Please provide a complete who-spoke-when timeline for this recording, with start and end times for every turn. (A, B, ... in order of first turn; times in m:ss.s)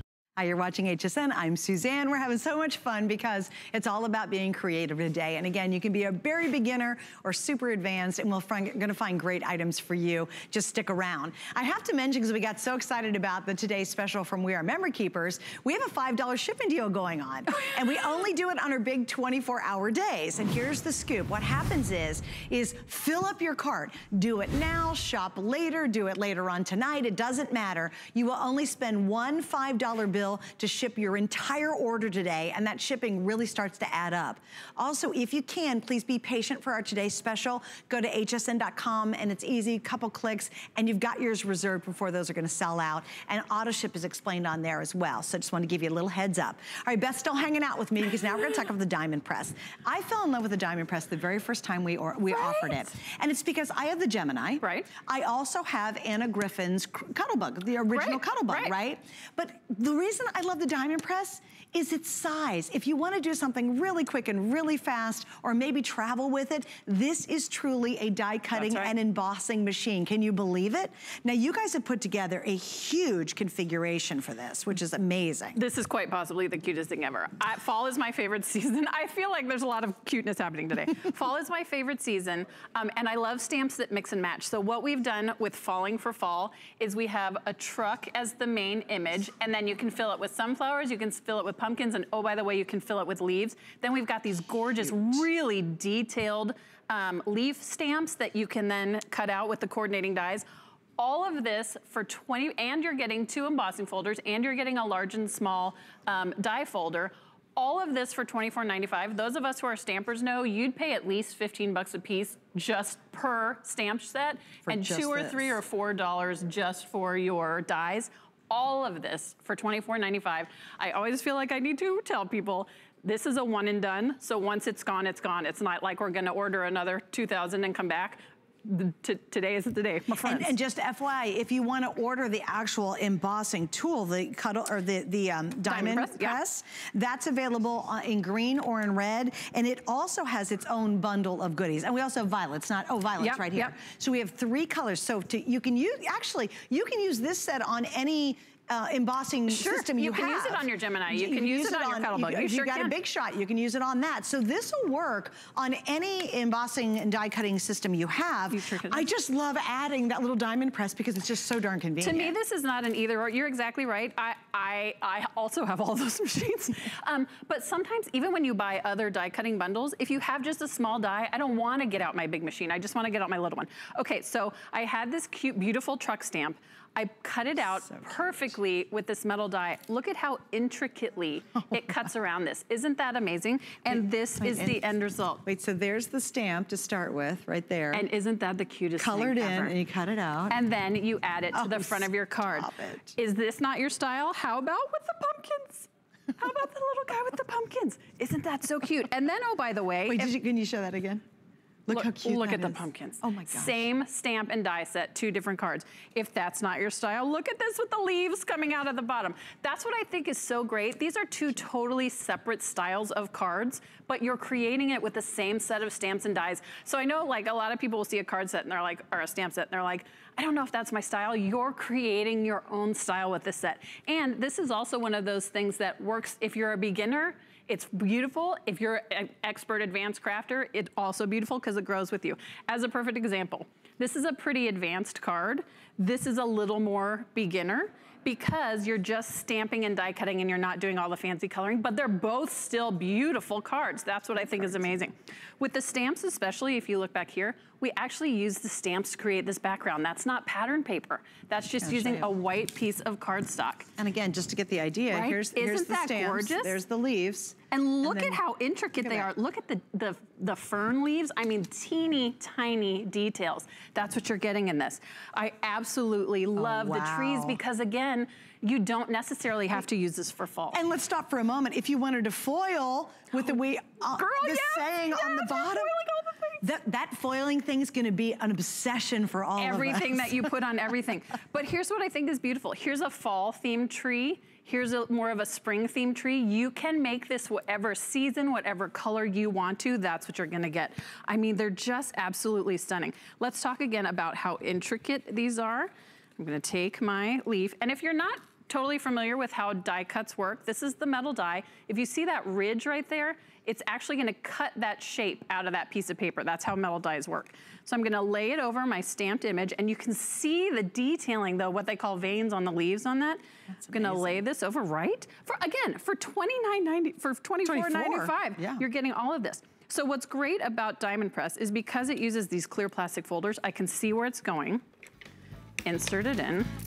0:00.4-1:15.6 A
0:52.3-0:52.8 B
0:54.6-0:54.9 B
0:57.9-0:58.7 B
1:08.5-1:08.9 B
1:15.6-1:40.4 B
1:41.0-2:10.6 B
1:54.6-1:55.6 A
2:10.2-2:42.4 A
2:15.7-2:16.4 B
2:23.2-2:23.7 B
2:29.5-2:32.9 B
2:38.5-2:39.1 B
2:42.0-3:05.4 B
2:57.6-2:58.5 A
3:03.9-3:04.8 A
3:05.4-3:08.0 A
3:07.9-3:09.8 B
3:09.0-3:10.6 A
3:10.5-3:20.3 B
3:11.5-3:13.2 A
3:20.1-3:21.2 A
3:21.9-3:23.9 A
3:21.9-4:13.9 B
4:04.3-4:04.9 A
4:11.8-4:12.3 A
4:14.0-4:18.4 A
4:15.1-4:16.8 B
4:17.7-4:30.8 B
4:19.0-4:19.3 A
4:26.6-4:27.6 A
4:30.7-4:35.9 A
4:34.1-4:36.6 B
4:36.6-4:40.5 A
4:39.6-5:24.8 B
5:13.7-5:14.4 A
5:17.6-5:18.8 A
5:25.8-5:26.7 B